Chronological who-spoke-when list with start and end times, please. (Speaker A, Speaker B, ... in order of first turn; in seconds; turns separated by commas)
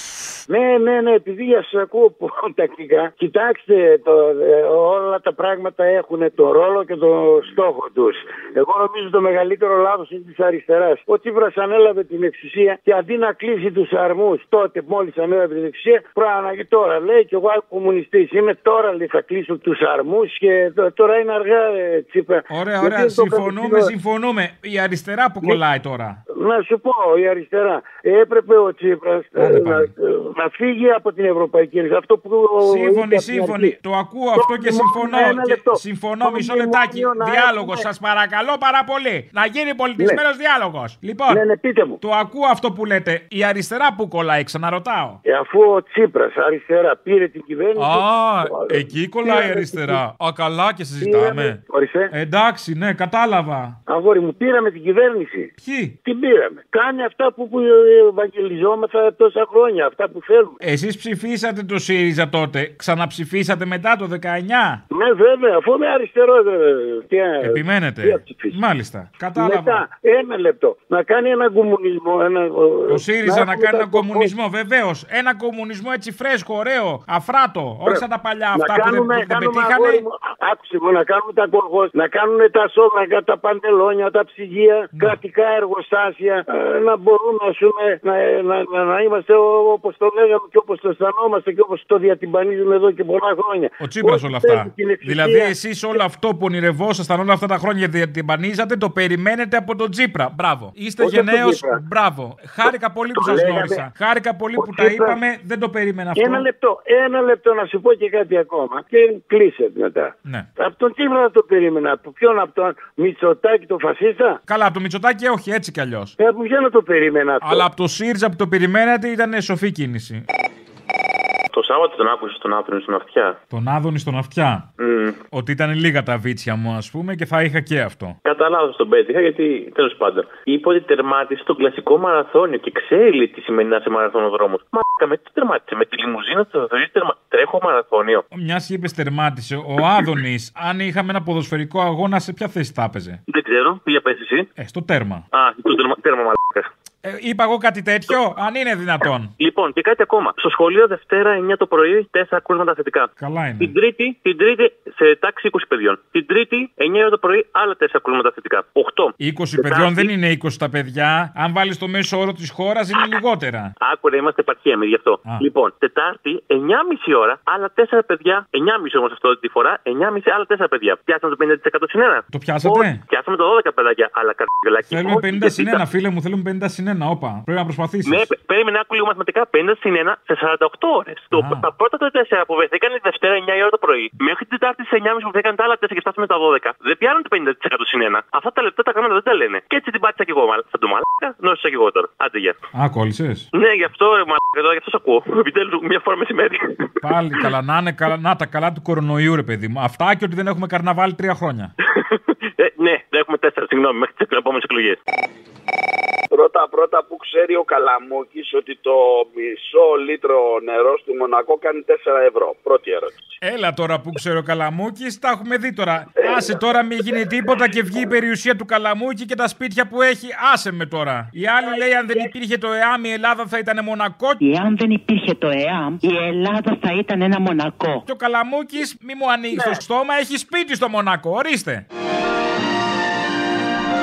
Speaker A: 0.5-23.9, Speaker B: 22.5-26.2, Speaker A: 26.4-33.7, Speaker B: 29.4-29.9, Speaker B: 32.6-41.4, Speaker A: 34.4-37.9, Speaker A: 41.3-42.0, Speaker B: 42.0-45.2, Speaker A: 45.2-50.0, Speaker B: 47.8-51.6, Speaker A: 51.0-52.1, Speaker B: 52.1-53.8, Speaker A: 53.9-55.5, Speaker B: 55.6-56.0, Speaker A: 56.0-60.6, Speaker B: 60.6-64.8, Speaker A: 64.9-68.6, Speaker B: 67.4-69.8, Speaker A: 69.4-74.3, Speaker B: 72.9-80.0, Speaker A: 78.5-95.5, Speaker B: 93.8-106.4, Speaker A: 101.0-101.8, Speaker A: 103.2-103.8, Speaker A: 104.6-105.2, Speaker A: 106.2-114.4, Speaker B: 114.5-116.1, Speaker A: 116.2-117.6, Speaker B: 117.4-120.2, Speaker C: 121.5-123.4, Speaker B: 123.5-124.7, Speaker C: 124.8-125.2, Speaker B: 125.3-128.2, Speaker C: 128.2-138.2, Speaker B: 138.3-143.2, Speaker C: 143.3-144.5, Speaker B: 144.6-145.2, Speaker C: 145.3-146.7, Speaker B: 147.0-149.3, Speaker C: 149.4-160.1, Speaker B: 153.2-153.7, Speaker B: 159.2-163.7, Speaker C: 163.8-175.8, Speaker B: 172.3-173.0, Speaker B: 174.9-178.3, Speaker C: 178.1-192.6, Speaker B: 181.3-181.7, Speaker B: 192.7-193.4, Speaker C: 193.5-196.9, Speaker B: 197.0-201.7, Speaker C: 201.9-205.0, Speaker D: 206.3-213.1, Speaker B: 213.4-224.4, Speaker E: 224.4-228.0, Speaker B: 228.1-231.8